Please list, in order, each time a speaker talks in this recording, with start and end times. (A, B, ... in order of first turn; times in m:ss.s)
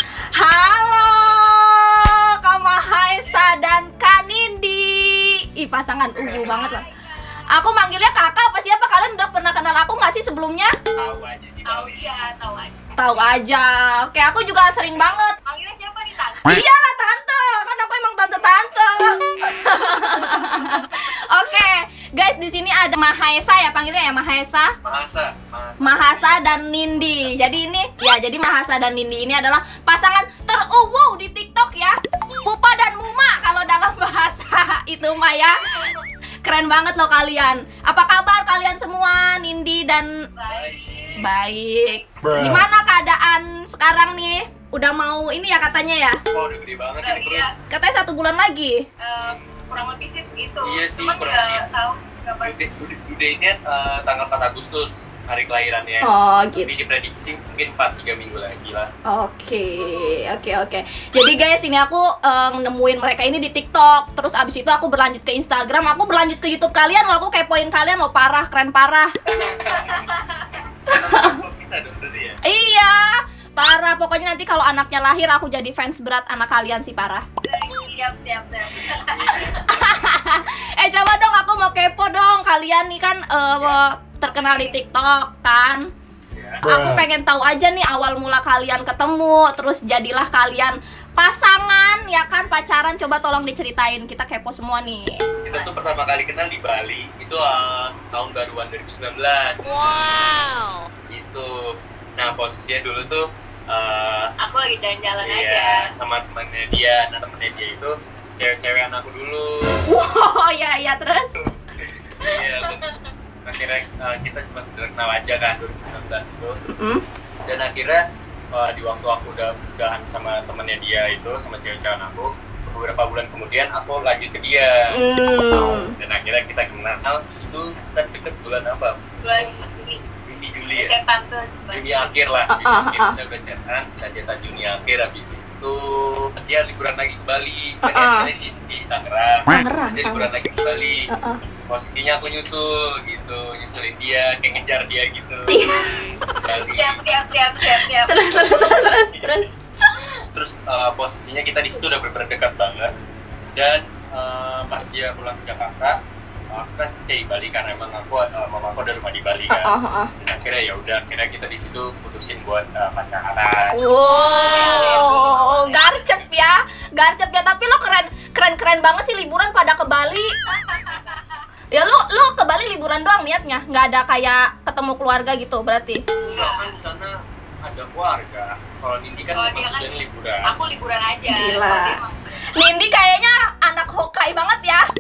0:00.4-0:06.9 A
0:06.2-0:06.6 B
0:06.3-0:07.5 C
0:07.5-0:10.7 A
0:11.0-0:12.1 B
0:11.6-0:13.3 C
0:13.0-0:15.4 A
0:15.4-0:16.6 C
0:16.5-0:24.7 A
0:24.8-0:26.6 B
0:25.8-0:35.8 A
0:36.4-0:40.1 A
0:40.4-0:41.3 C
0:40.5-0:41.2 B
0:41.2-0:46.2 A
0:41.9-0:42.2 C
0:46.3-0:47.5 B
0:47.0-0:47.5 C
0:47.7-0:48.8 A
0:49.0-0:52.6 C
0:49.2-0:49.7 B
0:50.6-0:51.6 B
0:52.4-0:58.9 B
0:56.0-0:56.7 A
0:59.1-1:09.1 A
0:59.8-1:00.1 C
1:09.3-1:12.4 B
1:09.4-1:10.6 C
1:10.9-1:11.4 A
1:12.4-1:17.3 A
1:17.4-1:19.4 C
1:18.8-1:20.3 B
1:19.4-1:25.8 A
1:26.4-1:26.6 B
1:26.6-1:35.1 A
1:35.4-1:39.9 B
1:41.1-1:41.5 B
1:42.2-1:44.3 B
1:44.4-1:45.9 C
1:45.2-1:49.6 B
1:49.9-1:51.3 A
1:51.4-1:52.9 B
1:52.2-1:53.0 C
1:53.4-1:56.5 B
1:56.7-1:57.0 A
1:57.5-1:58.0 B
1:58.5-2:04.9 B
2:04.9-2:05.9 A
2:05.5-2:09.0 B
2:09.2-2:10.0 C
2:10.2-2:10.9 B
2:10.7-2:12.3 C
2:11.7-2:21.1 B
2:12.5-2:13.2 A
2:17.8-2:18.3 A
2:19.5-2:20.3 A
2:21.1-2:21.4 A
2:21.7-2:25.6 B
2:25.5-2:26.0 A
2:26.4-2:27.0 B
2:26.6-2:28.6 C
2:27.7-2:29.5 A
2:29.0-2:29.5 B
2:30.3-2:32.9 B
2:33.6-2:36.0 B
2:36.5-2:39.7 B
2:39.5-2:40.1 A
2:40.2-2:45.3 B
2:43.7-2:50.3 A
2:44.1-2:46.0 C
2:50.5-2:51.4 C
2:51.7-2:56.0 A
2:56.2-2:56.7 C
2:56.3-3:00.5 B
2:59.3-2:59.9 C
3:00.4-3:02.6 C
3:01.3-3:04.9 A